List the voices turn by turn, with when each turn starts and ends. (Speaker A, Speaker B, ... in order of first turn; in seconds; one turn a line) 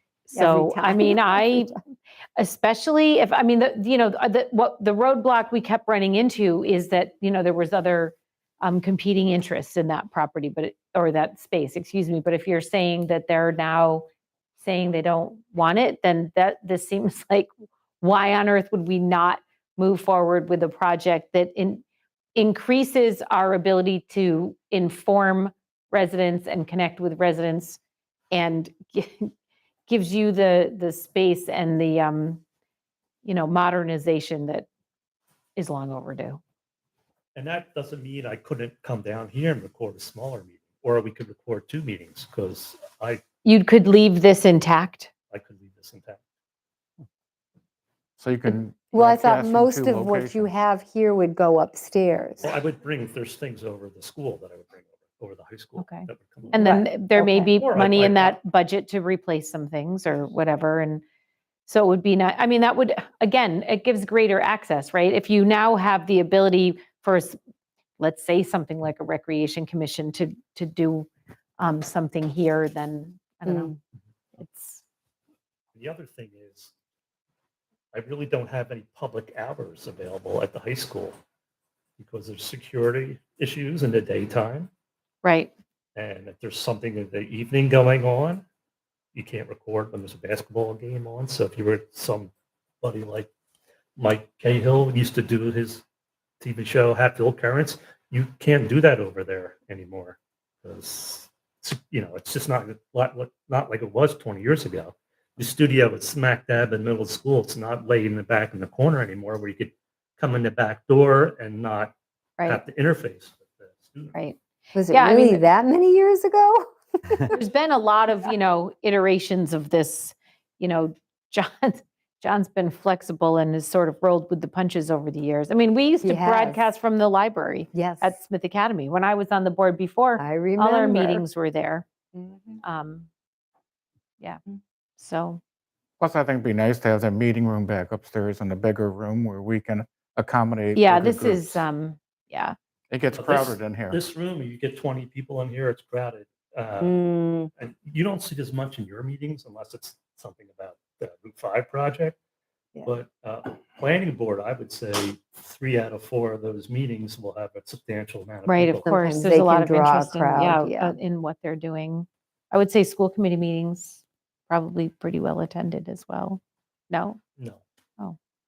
Speaker A: 0.3-1.7
Speaker B: 0.3-1.7
Speaker A: 2.4-14.1
Speaker A: 14.6-17.5
Speaker A: 18.0-21.8
Speaker A: 22.4-27.8
Speaker A: 28.3-29.3
Speaker A: 29.9-32.4
Speaker A: 33.2-34.7
Speaker A: 35.5-36.4
Speaker C: 37.3-43.2
Speaker A: 43.4-45.1
Speaker C: 45.3-46.2
Speaker D: 48.2-50.5
Speaker B: 48.9-52.5
Speaker C: 52.4-57.0
Speaker A: 55.8-61.0
Speaker B: 56.5-57.5
Speaker C: 57.5-58.4
Speaker A: 61.7-67.4
Speaker A: 68.0-73.7
Speaker B: 73.5-73.8
Speaker A: 74.4-74.8
Speaker C: 75.7-76.7
Speaker C: 77.9-81.2
Speaker C: 82.0-84.7
Speaker A: 85.2-85.5
Speaker C: 86.0-88.4
Speaker C: 89.1-93.3
Speaker C: 94.0-95.8
Speaker C: 96.4-111.9
Speaker C: 112.4-114.2
Speaker B: 114.7-117.2
Speaker A: 114.9-115.4
Speaker A: 117.3-131.8
Speaker B: 126.0-126.6
Speaker B: 127.7-128.1
Speaker B: 130.2-131.2
Speaker B: 132.1-132.6
Speaker A: 132.6-133.1
Speaker A: 135.0-135.4
Speaker D: 136.0-141.6
Speaker A: 140.7-142.6
Speaker D: 142.9-144.0
Speaker C: 143.1-147.0
Speaker B: 146.8-147.5
Speaker C: 147.6-152.2
Speaker C: 152.8-158.9
Speaker A: 158.4-167.2
Speaker B: 158.8-160.9